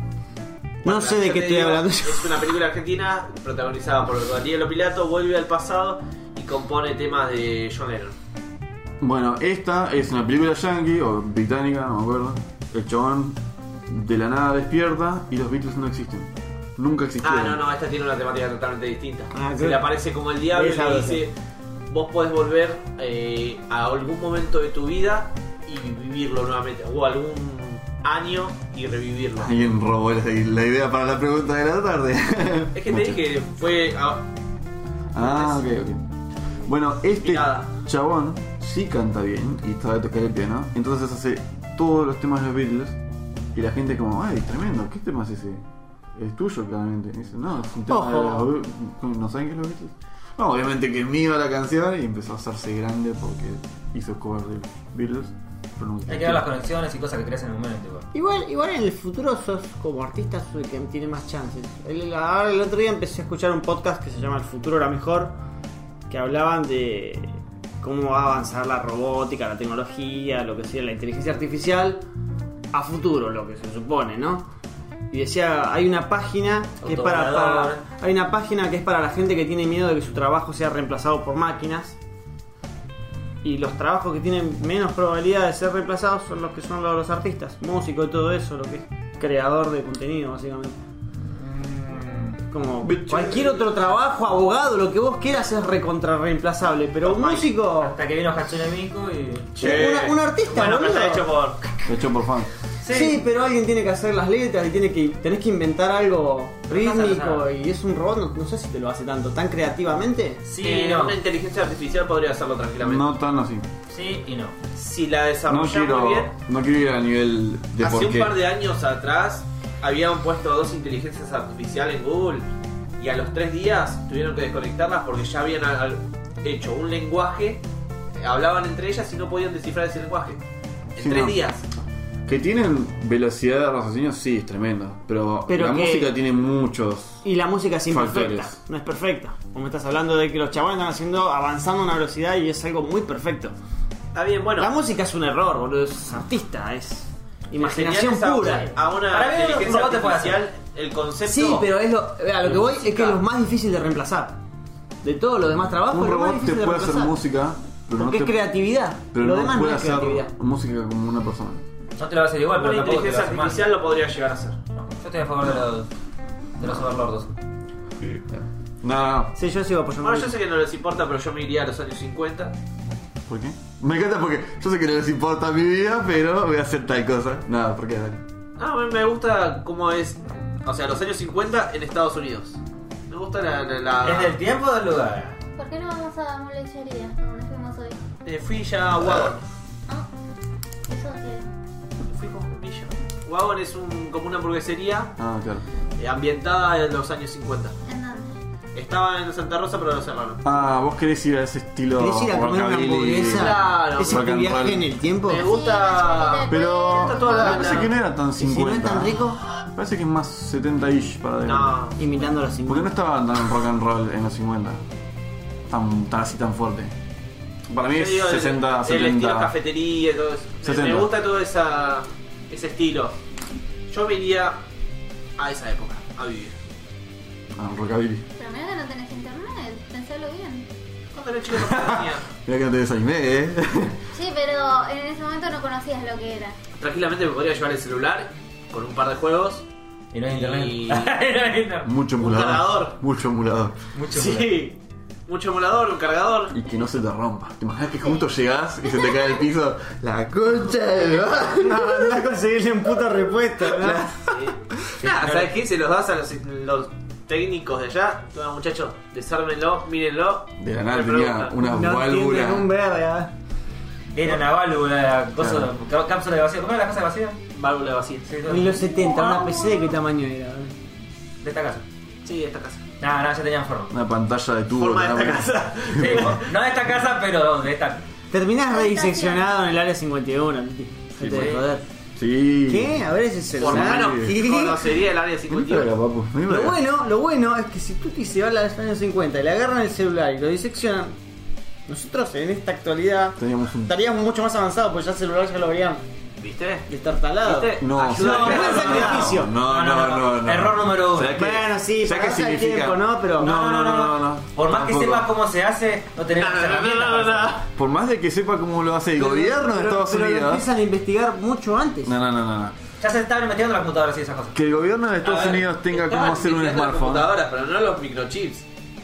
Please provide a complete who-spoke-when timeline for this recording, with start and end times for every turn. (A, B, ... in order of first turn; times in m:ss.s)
0:00.8-0:02.4 A
0:00.8-0:08.2 B
0:09.0-0:17.6 C
0:17.2-0:21.4 B
0:19.3-0:21.2 A
0:21.9-0:29.5 B
0:29.4-0:33.2 C
0:32.7-0:34.3 B
0:35.1-0:36.0 C
0:35.2-0:35.6 B
0:36.7-0:43.0 C
0:37.2-0:37.7 B
0:43.5-0:45.6 C
0:46.2-0:56.5 C
0:47.9-0:48.5 A
0:56.1-0:58.1 D
0:58.1-1:05.4 A
1:06.1-1:12.0 A
1:12.7-1:14.5 A
1:15.1-1:22.0 A
1:16.8-1:17.8 D
1:23.4-1:30.8 A
1:31.4-1:32.4 D
1:32.5-1:38.0 A
1:32.8-1:33.8 C
1:37.0-1:37.5 B
1:37.8-1:39.9 D
1:39.6-1:40.2 C
1:39.6-1:41.3 A
1:40.5-1:41.6 B
1:41.9-1:42.5 C
1:42.8-1:43.2 D
1:42.9-1:50.4 A
1:46.7-1:47.4 D
1:50.4-1:51.2 D
1:50.6-1:53.1 B
1:52.8-1:53.7 C
1:53.9-1:54.6 D
1:54.7-1:56.3 B
1:55.5-1:58.4 C
1:57.8-2:07.6 B
2:08.2-2:10.4 B
2:11.0-2:11.6 B
2:11.0-2:11.4 C
2:12.3-2:17.2 C
2:15.5-2:16.1 A
2:17.2-2:23.5 A
2:17.9-2:18.6 C
2:24.1-2:24.7 B
2:24.6-2:28.7 A
2:27.6-2:31.7 B
2:29.0-2:30.4 D
2:31.2-2:34.4 A
2:32.4-2:33.2 B
2:35.0-2:37.2 A
2:35.8-2:38.5 C
2:37.9-2:40.3 A
2:39.1-2:41.6 C
2:42.0-2:43.7 D
2:42.6-2:44.6 B
2:44.8-2:45.9 D
2:46.6-2:47.3 D
2:48.0-2:49.4 C
2:49.4-2:50.4 A
2:50.0-2:52.6 B
2:53.3-2:58.2 C
2:58.6-3:04.4 B
3:04.0-3:05.4 D
3:05.6-3:08.0 E
3:08.2-3:09.4 B
3:10.9-3:11.5 E
3:12.0-3:15.1 B
3:15.2-3:15.6 C
3:16.0-3:17.8 B
3:17.9-3:18.4 E
3:18.7-3:20.4 B
3:20.4-3:24.9 C
3:22.0-3:25.5 A
3:23.3-3:24.3 B
3:25.2-3:27.9 B
3:25.4-3:27.9 E
3:26.5-3:29.2 C
3:28.4-3:29.4 A
3:29.7-3:31.9 C
3:31.4-3:32.0 B
3:32.0-3:33.0 A
3:32.7-3:34.8 C
3:35.7-3:36.9 C
3:37.7-3:39.5 C
3:37.9-3:43.1 B
3:40.6-3:41.1 C
3:43.9-3:44.6 B
3:45.4-3:46.6 B
3:47.6-3:48.2 C
3:48.4-3:50.7 E
3:51.1-3:52.2 B
3:51.5-3:54.0 C
3:54.1-3:56.6 E
3:56.8-3:59.7 B
4:00.1-4:01.9 D
4:00.3-4:01.1 B
4:01.8-4:03.8 C
4:02.2-4:03.0 B
4:03.9-4:04.7 D
4:04.1-4:06.5 B
4:06.5-4:12.2 C
4:11.6-4:14.1 A
4:13.7-4:14.9 C
4:14.3-4:21.6 B
4:15.0-4:15.5 D
4:20.6-4:22.7 C
4:21.6-4:23.3 A
4:24.1-4:27.4 D
4:25.4-4:25.7 C
4:27.5-4:28.3 B
4:28.3-4:29.7 D
4:28.5-4:30.8 A
4:31.4-4:31.8 D
4:32.2-4:32.8 B
4:33.0-4:33.9 D
4:33.9-4:36.4 C
4:34.8-4:36.5 B
4:36.0-4:38.0 D
4:38.3-4:41.8 A
4:38.7-4:39.5 E
4:41.2-4:41.6 C
4:41.2-4:41.6 D
4:42.2-4:43.1 C
4:42.7-4:44.9 A
4:43.6-4:45.9 B
4:43.6-4:44.5 C
4:45.5-4:46.8 C
4:46.5-4:51.2 A
4:51.9-4:56.0 A
4:53.4-4:54.0 C
4:56.4-4:56.9 B
4:56.9-4:59.5 A
4:57.4-4:59.2 B
4:57.8-5:05.3 C
4:58.1-5:01.4 D
5:01.4-5:03.5 A
5:03.4-5:07.6 D
5:06.3-5:07.7 B
5:07.8-5:10.6 C
5:09.2-5:12.1 A
5:12.0-5:12.8 C
5:13.0-5:14.6 D
5:14.5-5:17.3 C
5:15.2-5:18.6 B